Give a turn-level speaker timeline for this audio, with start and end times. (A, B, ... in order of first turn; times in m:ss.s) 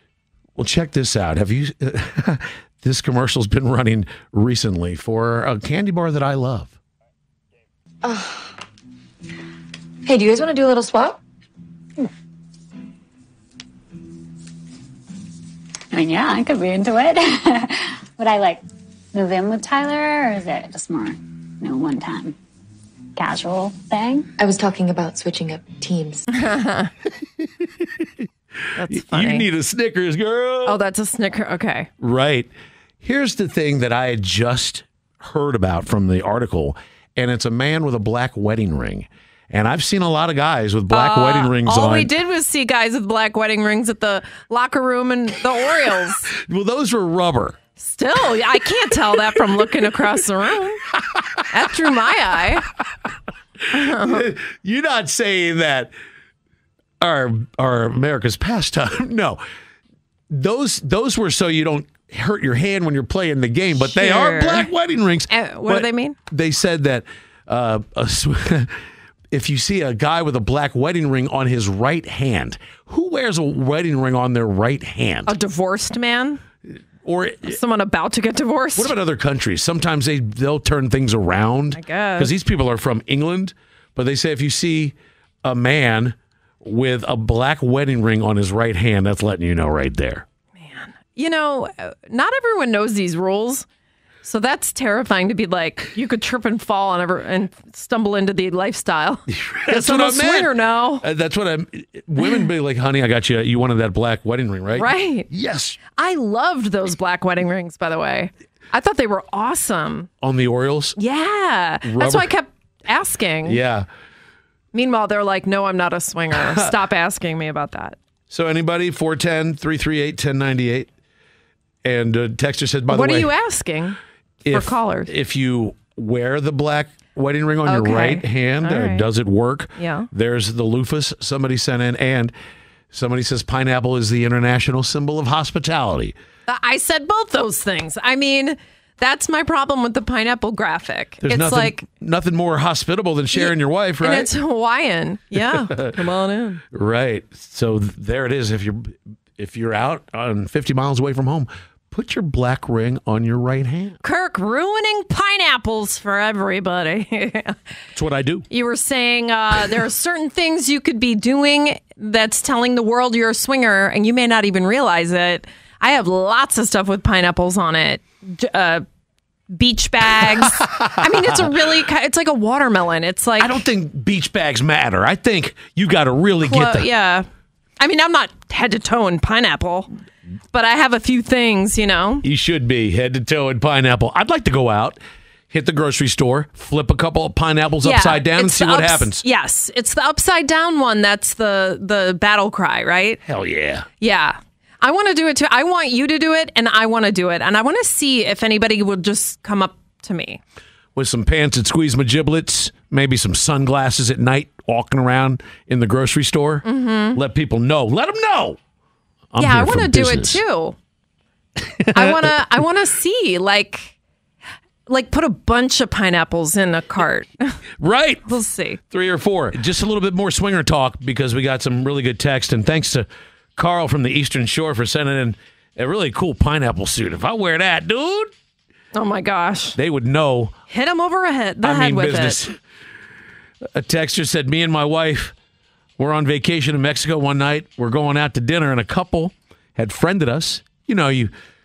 0:00.6-0:06.8 A
0:08.0-0:08.4 B
0:10.0-0:11.2 B
0:15.9-0:22.4 C
0:23.2-0:24.3 C
0:24.4-0:26.3 B
0:26.3-0:26.9 D
0:27.6-0:28.1 A
0:28.8-0:29.5 D
0:28.8-0:30.8 A
0:30.6-0:31.9 D
0:32.0-0:32.5 A
0:33.0-0:42.1 A
0:40.9-0:46.3 D
0:46.3-0:47.6 A
0:47.8-0:50.8 D
0:48.9-0:49.3 A
0:50.9-0:51.4 A
0:51.5-0:52.7 D
0:53.7-0:54.3 D
0:53.7-0:55.9 A
0:57.0-0:59.4 A
1:00.3-1:08.8 A
1:03.8-1:04.7 D
1:05.3-1:06.2 D
1:09.3-1:15.3 A
1:15.3-1:16.4 D
1:16.7-1:17.6 A
1:17.4-1:18.9 D
1:18.8-1:30.2 A
1:21.7-1:22.3 D
1:30.6-1:33.6 D
1:34.2-1:41.0 D
1:39.3-1:45.8 A
1:44.7-1:45.3 D
1:46.0-1:50.1 D
1:50.2-1:51.0 A
1:51.0-1:53.6 D
1:51.8-1:52.3 A
1:53.4-1:53.9 A
1:54.7-1:58.0 D
1:56.4-1:56.7 A
1:58.3-2:00.9 A
2:01.8-2:03.3 A
2:02.9-2:04.0 D
2:04.4-2:12.3 A
2:04.5-2:05.1 D
2:07.6-2:09.1 D
2:09.8-2:10.1 D
2:12.9-2:16.1 A
2:16.5-2:21.8 D
2:21.2-2:24.3 A
2:23.3-2:26.6 D
2:25.4-2:26.0 A
2:26.7-2:34.0 A
2:34.0-2:37.6 D
2:37.9-2:38.4 A
2:38.5-2:48.8 D
2:49.5-2:53.6 D
2:50.2-2:51.5 A
2:53.4-2:56.9 A
2:56.4-2:57.2 D
2:57.8-2:59.9 D
3:00.5-3:02.2 D
3:02.2-3:05.0 A
3:05.5-3:09.2 A
3:07.8-3:13.2 D
3:13.2-3:13.9 A
3:14.0-3:20.4 D
3:20.9-3:28.6 A
3:26.6-3:27.2 D
3:29.3-3:30.4 A
3:29.4-3:30.8 D
3:31.6-3:32.4 A
3:31.9-3:33.9 D
3:34.9-3:37.6 D
3:37.8-3:38.2 A
3:38.2-3:38.8 D
3:38.9-3:48.3 A
3:48.9-3:49.8 D
3:49.7-3:50.5 A
3:50.7-3:52.4 D
3:51.6-3:52.6 A
3:53.7-3:55.3 A
3:56.0-4:01.3 A